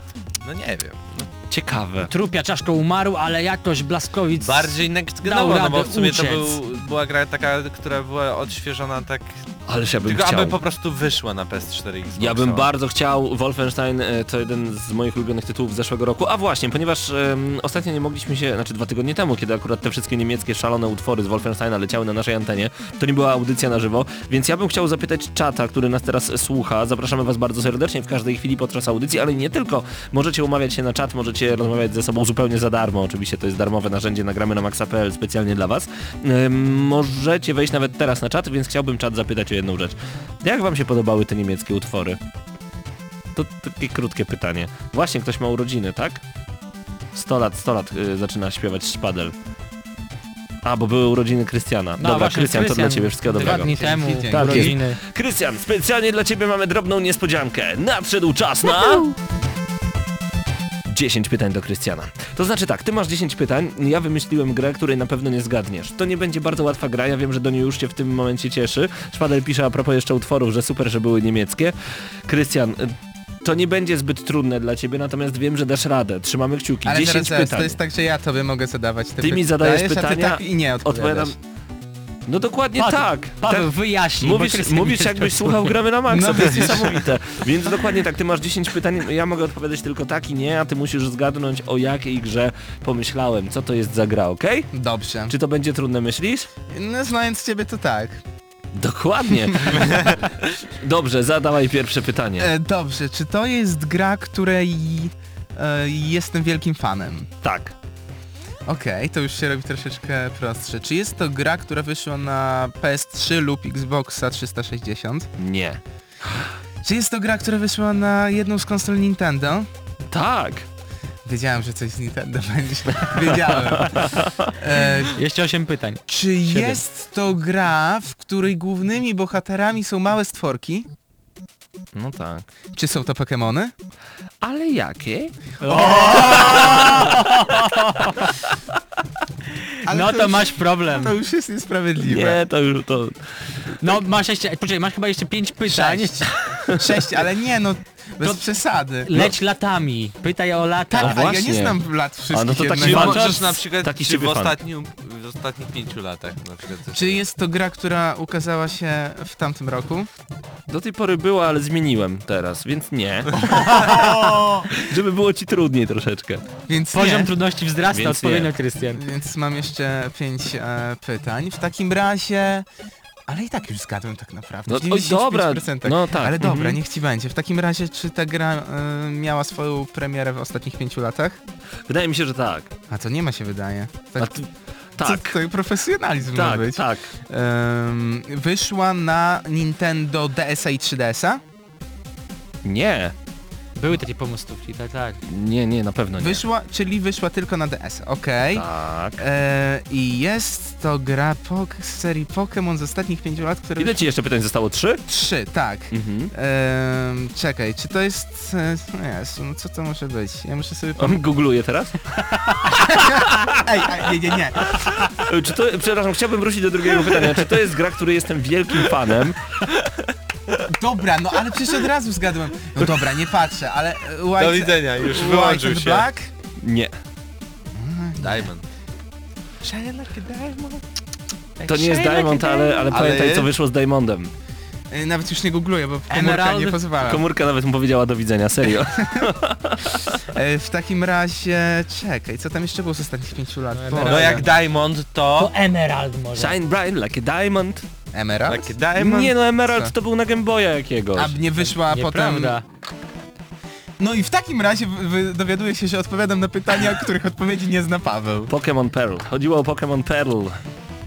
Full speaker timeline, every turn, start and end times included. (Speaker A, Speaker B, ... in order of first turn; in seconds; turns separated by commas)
Speaker A: 0.4-1.3, Speaker B: 1.5-2.1, Speaker C: 2.1-6.6, Speaker A: 4.4-9.4, Speaker B: 9.7-10.6, Speaker A: 10.0-12.7, Speaker B: 12.2-42.2, Speaker B: 43.4-46.2, Speaker B: 47.1-49.3, Speaker B: 50.6-59.1, Speaker C: 52.0-55.0, Speaker D: 53.4-54.8, Speaker B: 60.9-71.7, Speaker B: 72.3-77.8, Speaker D: 76.8-81.4, Speaker B: 79.2-81.3, Speaker B: 82.3-94.7, Speaker C: 82.8-85.7, Speaker D: 86.1-87.1, Speaker D: 94.7-95.3, Speaker B: 95.3-96.5, Speaker D: 96.7-98.2, Speaker B: 98.8-102.5, Speaker D: 99.3-99.9, Speaker D: 102.4-107.3, Speaker B: 107.4-107.8, Speaker D: 108.7-115.3, Speaker B: 115.4-115.8, Speaker D: 116.8-119.7, Speaker B: 120.1-120.7, Speaker D: 121.2-125.2, Speaker B: 123.2-124.5, Speaker C: 125.2-126.8, Speaker D: 126.1-130.9, Speaker B: 131.9-132.5, Speaker D: 132.7-133.7, Speaker B: 134.4-137.2, Speaker C: 135.6-138.3, Speaker D: 135.6-136.9, Speaker D: 139.9-142.4, Speaker C: 139.9-141.1, Speaker B: 142.0-143.2, Speaker C: 143.8-146.3, Speaker D: 145.7-149.1, Speaker C: 149.0-151.2, Speaker D: 150.9-153.3, Speaker B: 151.0-151.8, Speaker B: 152.3-154.6, Speaker A: 152.8-157.2, Speaker D: 156.9-160.1, Speaker B: 160.7-164.1, Speaker C: 163.6-164.3, Speaker D: 163.7-164.7, Speaker B: 164.7-166.4, Speaker D: 166.7-167.3, Speaker C: 166.9-169.0, Speaker B: 167.9-168.5, Speaker D: 168.9-172.7, Speaker D: 173.3-181.4, Speaker B: 174.7-176.8, Speaker B: 181.9-182.7, Speaker D: 182.9-184.3, Speaker B: 184.2-185.4, Speaker D: 185.0-191.4, Speaker B: 186.3-187.1, Speaker B: 192.6-193.1, Speaker C: 193.8-195.2, Speaker B: 195.3-196.4, Speaker D: 196.2-198.7, Speaker B: 198.5-199.2, Speaker D: 199.2-204.1, Speaker B: 203.8-205.0, Speaker D: 205.1-211.2, Speaker B: 205.9-206.3, Speaker B: 211.0-212.2, Speaker D: 212.8-214.8, Speaker B: 212.8-213.8, Speaker B: 214.6-219.9, Speaker D: 220.6-226.3, Speaker A: 224.4-226.1, Speaker B: 226.6-226.9, Speaker D: 227.8-228.5, Speaker A: 228.2-228.6, Speaker A: 229.6-230.8, Speaker D: 231.6-232.8, Speaker B: 231.7-234.3, Speaker A: 232.9-233.5, Speaker D: 234.9-237.2, Speaker C: 236.1-236.8, Speaker B: 237.0-240.2, Speaker D: 239.0-239.3, Speaker D: 240.2-244.4, Speaker C: 243.7-244.5, Speaker A: 244.0-245.5, Speaker C: 245.4-246.6, Speaker B: 246.4-247.8, Speaker D: 248.1-249.9, Speaker A: 248.5-249.3, Speaker B: 249.0-251.4, Speaker D: 251.2-252.6, Speaker C: 251.9-252.6, Speaker D: 254.0-258.5, Speaker B: 258.5-260.6